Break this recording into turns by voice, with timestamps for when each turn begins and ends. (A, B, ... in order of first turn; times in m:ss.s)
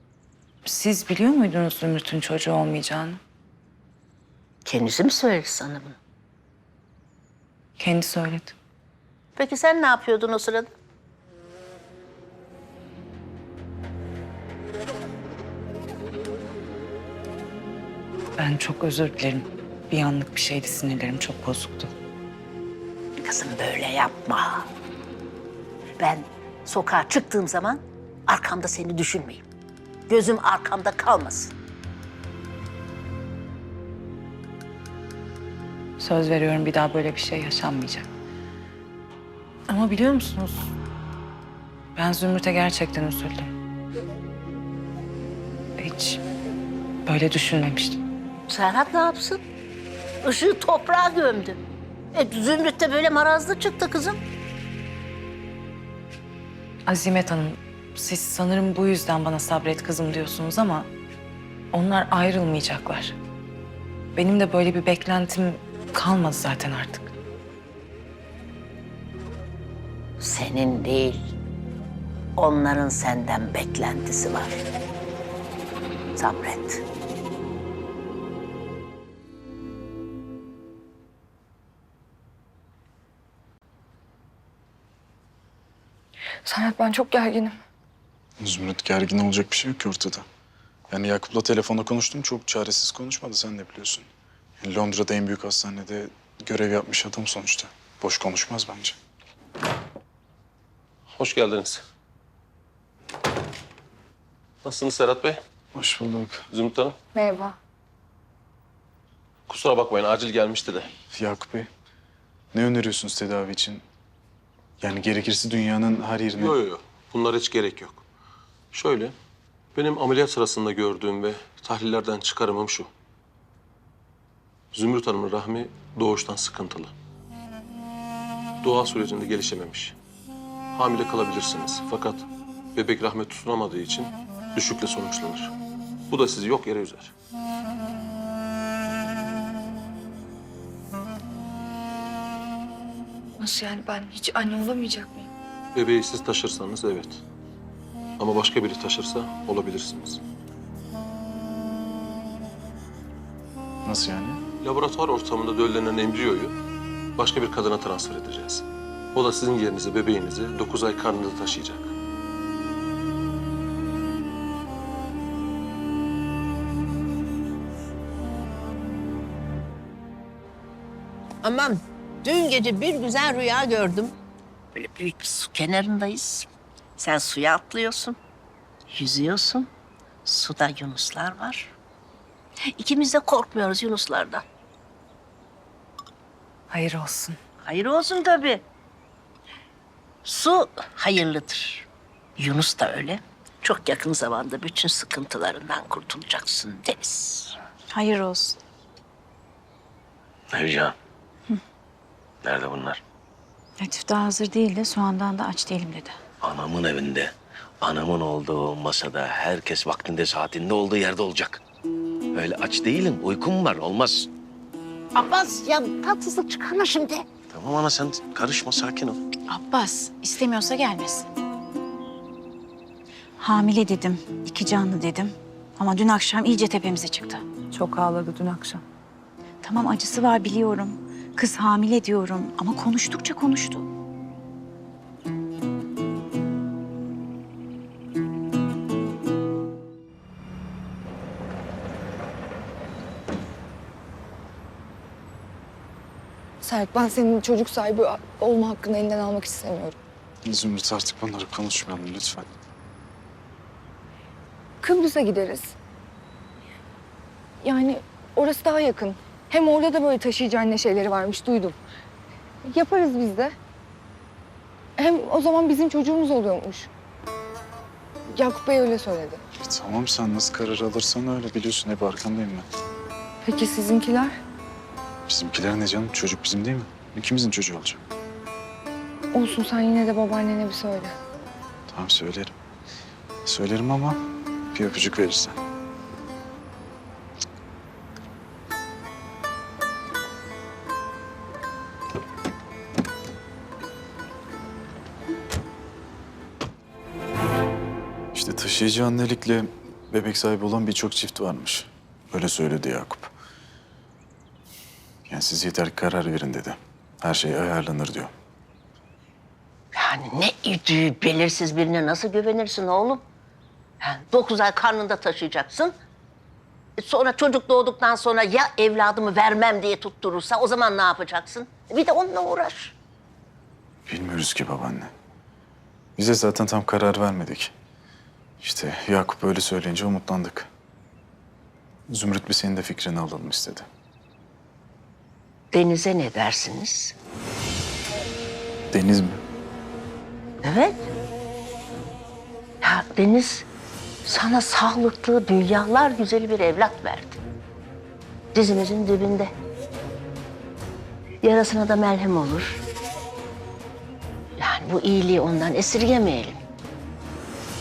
0:00.6-0:03.2 A
0:04.6-0:06.0 B
0:07.8-0:08.6 A
0:09.4-0:10.7 B
0:18.4-0:21.9 A
0:23.2-0:24.7 B
0:26.0-0:29.4 B
0:30.1-0:31.5 B
0:36.0-0:38.1 A
0:39.7-0:40.7 A
0:42.0-0:43.5 A
0:45.8-0:46.2 A
0:47.1-0:48.0 A
0:48.5-0:49.4 B
0:50.2-0:51.6 B
0:52.1-0:54.2 B
0:56.9-1:00.9 A
1:01.7-1:03.2 A
1:04.2-1:07.1 A
1:10.2-1:11.2 B
1:12.4-1:14.6 B
1:16.2-1:16.8 B
1:26.5-1:27.5 C
1:28.4-1:30.2 D
1:30.9-1:34.1 D
1:34.6-1:39.0 D
1:41.2-1:41.8 E
1:44.6-1:45.4 E
1:45.7-1:46.4 D
1:46.5-1:47.0 E
1:47.2-1:47.5 C
1:49.5-1:50.9 E
1:51.1-1:51.7 D
1:52.5-1:53.8 D
1:54.8-1:56.6 D
1:56.4-1:58.0 E
1:58.7-1:59.2 E
1:59.8-2:02.9 E
2:04.7-2:06.9 E
2:08.6-2:10.0 E
2:10.7-2:15.5 E
2:16.1-2:17.1 E
2:23.4-2:25.3 C
2:25.8-2:27.2 E
2:28.2-2:30.2 E
2:33.8-2:34.4 D
2:34.6-2:36.6 E
2:37.2-2:41.9 E
2:51.4-2:54.1 B
2:54.8-2:58.2 B
2:58.9-2:59.7 B
3:00.2-3:01.7 B
3:02.8-3:04.4 B
3:06.7-3:07.4 A
3:07.6-3:08.6 B
3:10.2-3:11.9 B
3:12.4-3:17.6 B
3:17.9-3:18.6 F
3:20.5-3:21.0 G
3:22.4-3:23.0 G
3:23.8-3:26.2 F
3:26.4-3:31.6 G
3:32.3-3:34.3 G
3:35.2-3:37.3 B
3:37.5-3:39.2 G
3:39.5-3:41.3 F
3:43.4-3:47.4 F
3:47.7-3:48.8 A
3:49.6-3:53.9 F
4:06.6-4:10.0 C
4:10.4-4:12.5 D
4:14.8-4:15.8 C
4:17.6-4:21.8 C
4:22.7-4:23.5 C
4:25.0-4:26.9 C
4:28.3-4:29.4 C
4:29.6-4:32.7 D
4:33.4-4:34.4 C
4:35.3-4:38.0 D
4:39.3-4:41.2 C
4:41.9-4:42.5 D
4:43.4-4:44.2 D
4:44.7-4:45.6 D
4:58.3-5:03.3 D
5:05.3-5:08.3 D
5:10.0-5:13.2 B
5:14.0-5:16.0 B
5:17.0-5:23.0 B
5:24.1-5:25.1 D
5:26.2-5:27.7 D
5:28.6-5:30.7 D
5:32.1-5:33.9 D
5:35.7-5:37.1 B
5:38.9-5:39.4 D
5:40.6-5:41.1 B
5:42.8-5:43.7 B
5:44.2-5:47.4 B
5:48.5-5:49.5 B
5:51.4-5:52.8 B
5:54.6-5:56.6 B